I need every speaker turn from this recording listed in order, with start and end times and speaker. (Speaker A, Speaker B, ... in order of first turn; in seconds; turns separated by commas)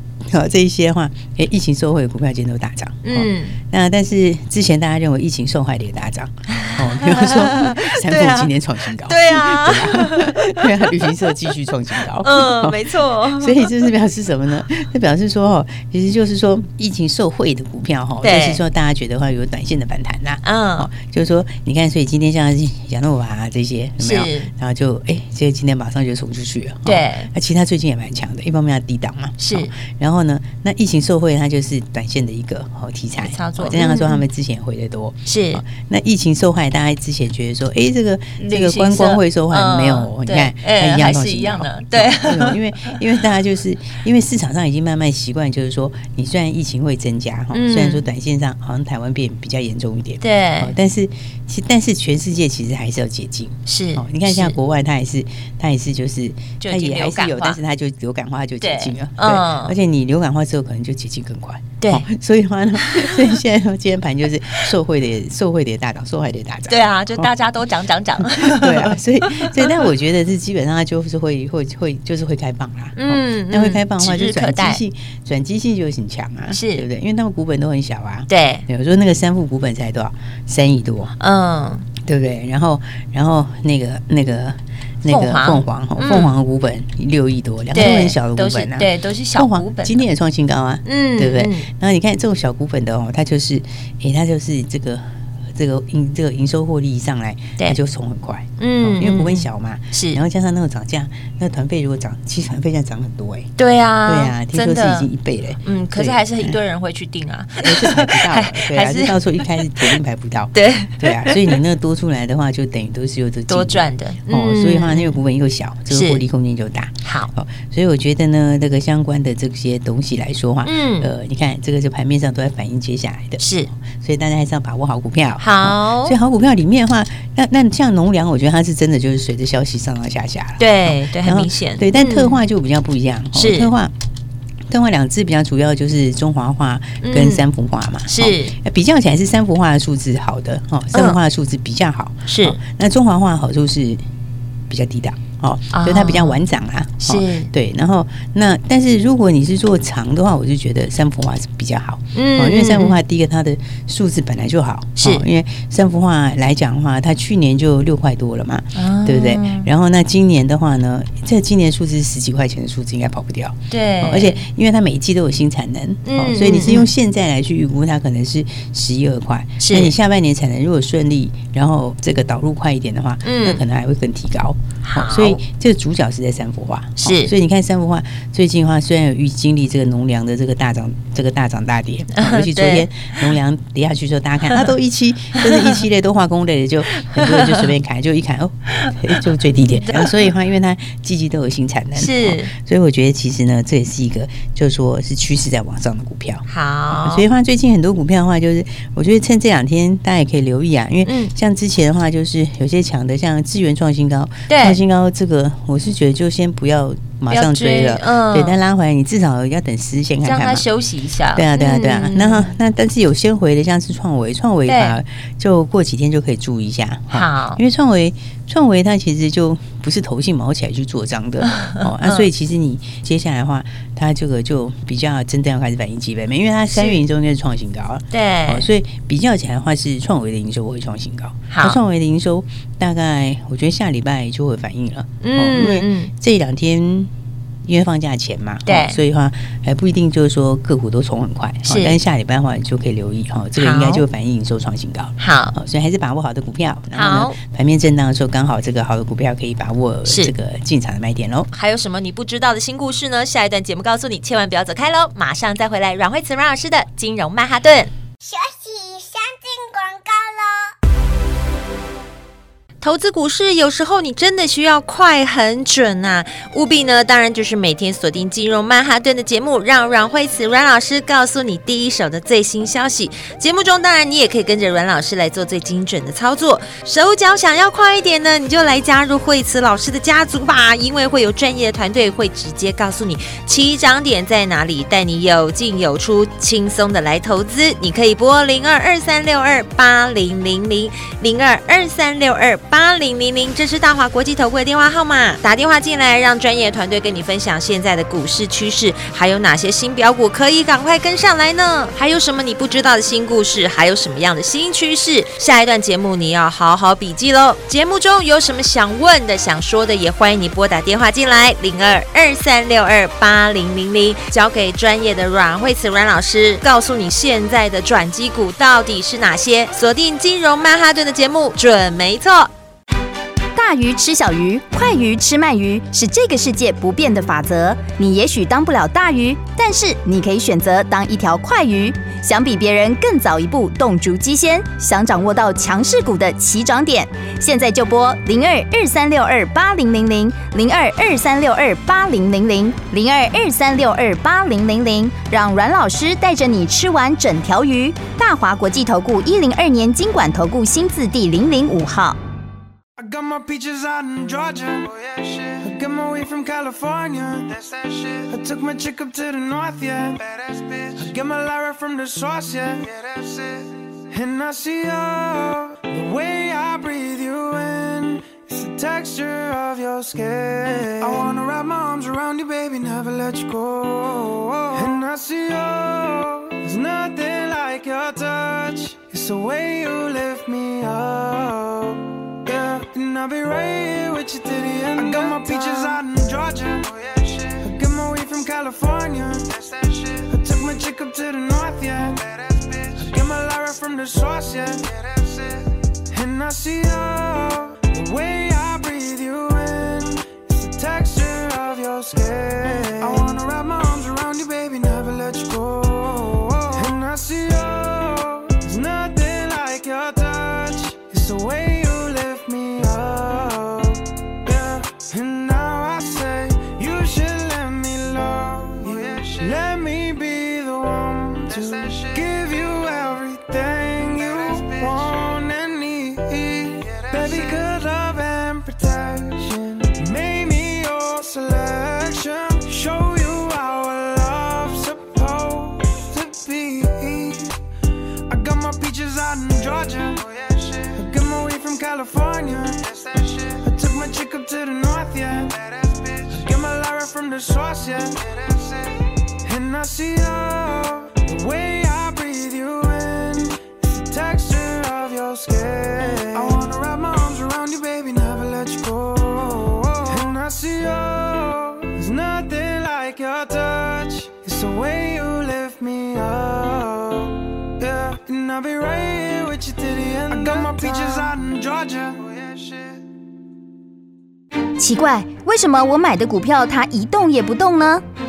Speaker A: 0.2-67.3, Speaker B: 3.0-3.5, Speaker B: 6.5-11.3, Speaker B: 12.1-13.7, Speaker B: 18.2-18.6, Speaker B: 20.4-20.9, Speaker B: 24.0-24.5, Speaker B: 26.9-27.3, Speaker B: 29.4-29.7, Speaker B: 33.2-34.2, Speaker B: 35.3-35.6, Speaker B: 38.4-43.0, Speaker B: 47.5-48.0, Speaker B: 50.2-50.7, Speaker B: 53.7-54.5, Speaker B: 56.6-57.6, Speaker B: 58.6-59.7, Speaker B: 62.8-63.2, Speaker B: 66.7-69.8, Speaker A: 68.2-81.1, Speaker B: 73.0-74.8, Speaker B: 76.5-76.8, Speaker B: 78.3-78.6, Speaker B: 81.2-81.8, Speaker A: 82.0-103.5, Speaker B: 85.1-86.3, Speaker B: 87.7-90.0, Speaker B: 90.8-91.7, Speaker B: 98.6-100.2, Speaker B: 103.6-105.1, Speaker A: 104.0-106.6, Speaker B: 105.6-110.0, Speaker A: 107.6-133.9, Speaker B: 110.5-111.6, Speaker B: 113.5-115.2, Speaker B: 115.9-116.2, Speaker B: 117.0-117.3, Speaker B: 120.6-121.1, Speaker B: 123.4-123.7, Speaker B: 125.4-126.2, Speaker B: 130.6-132.4, Speaker B: 133.3-133.7, Speaker A: 134.7-144.0, Speaker B: 137.0-137.4, Speaker B: 138.1-138.5, Speaker B: 140.9-141.2, Speaker B: 142.3-142.6, Speaker A: 144.7-210.6, Speaker B: 145.7-146.4, Speaker B: 147.0-147.5, Speaker B: 152.1-153.0, Speaker B: 155.0-155.2, Speaker B: 158.8-159.7, Speaker B: 163.7-164.4, Speaker B: 166.0-166.9, Speaker B: 169.6-169.9, Speaker B: 173.2-173.6, Speaker B: 174.8-175.4, Speaker B: 177.0-177.3, Speaker B: 182.2-183.3, Speaker B: 185.4-185.8, Speaker B: 187.0-187.7, Speaker B: 188.8-189.2, Speaker B: 189.9-190.2, Speaker B: 191.9-192.5, Speaker B: 196.5-197.2, Speaker B: 201.1-201.3, Speaker B: 204.5-204.8, Speaker B: 207.3-208.6, Speaker B: 210.2-212.5, Speaker A: 211.3-237.1, Speaker B: 214.7-215.0, Speaker B: 217.1-217.6, Speaker B: 221.5-222.2, Speaker B: 226.7-227.0, Speaker B: 228.1-228.7, Speaker B: 231.5-231.8, Speaker B: 235.2-236.1, Speaker A: 237.6-251.5, Speaker B: 238.7-239.0, Speaker B: 241.7-242.0, Speaker B: 243.6-244.0, Speaker B: 245.2-245.5, Speaker B: 246.9-247.4, Speaker B: 250.1-250.3, Speaker B: 251.5-257.9, Speaker C: 258.2-260.7, Speaker B: 262.8-322.5, Speaker D: 323.5-352.2, Speaker E: 353.0-437.6, Speaker E: 438.3-473.0, Speaker D: 474.8-478.0